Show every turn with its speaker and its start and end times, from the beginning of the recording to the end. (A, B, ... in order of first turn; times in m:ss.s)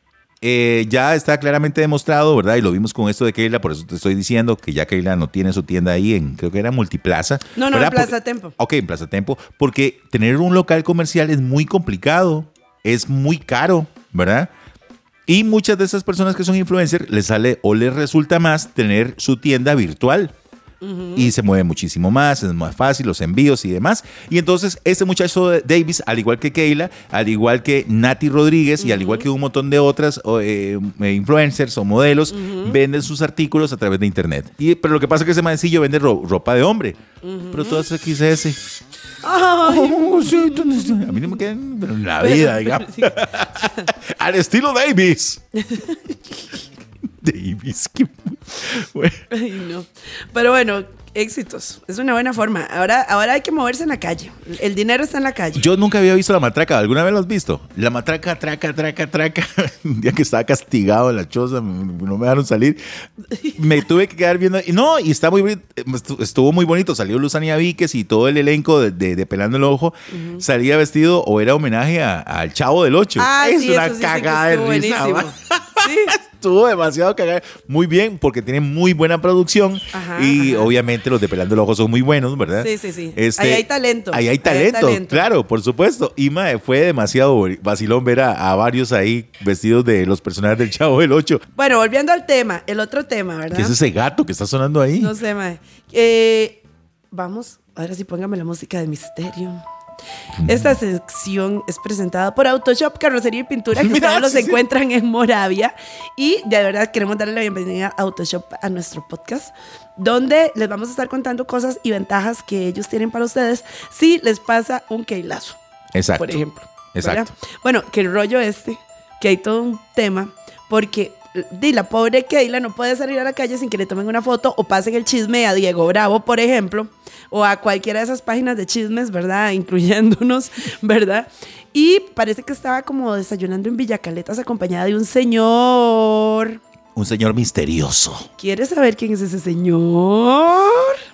0:00.4-0:14.5 A
0:07.5-0:08.5 B
0:15.3-0:20.3 A
0:20.8-0:21.3 B
0:21.1-0:37.0 A
0:28.8-0:29.3 B
0:32.3-0:32.8 B
0:37.2-0:37.8 B
0:37.5-0:38.6 A
0:39.2-0:41.2 B
0:39.6-0:45.4 A
0:42.2-0:43.9 B
0:45.6-0:46.0 B
0:47.2-0:49.2 A
0:49.3-0:55.6 B
0:55.5-1:02.8 A
1:03.3-1:03.8 B
1:03.6-1:31.4 A
1:10.1-1:10.4 B
1:13.2-1:16.2 B
1:19.9-1:20.7 B
1:22.6-1:25.3 B
1:31.5-1:33.8 B
1:33.5-1:35.1 A
1:35.0-1:39.6 B
1:40.4-1:40.7 A
1:40.4-1:55.6 B
1:43.8-1:44.6 A
1:55.9-1:56.4 A
1:56.2-2:16.6 B
1:56.9-1:57.3 A
2:17.0-2:18.3 A
2:18.4-2:21.0 B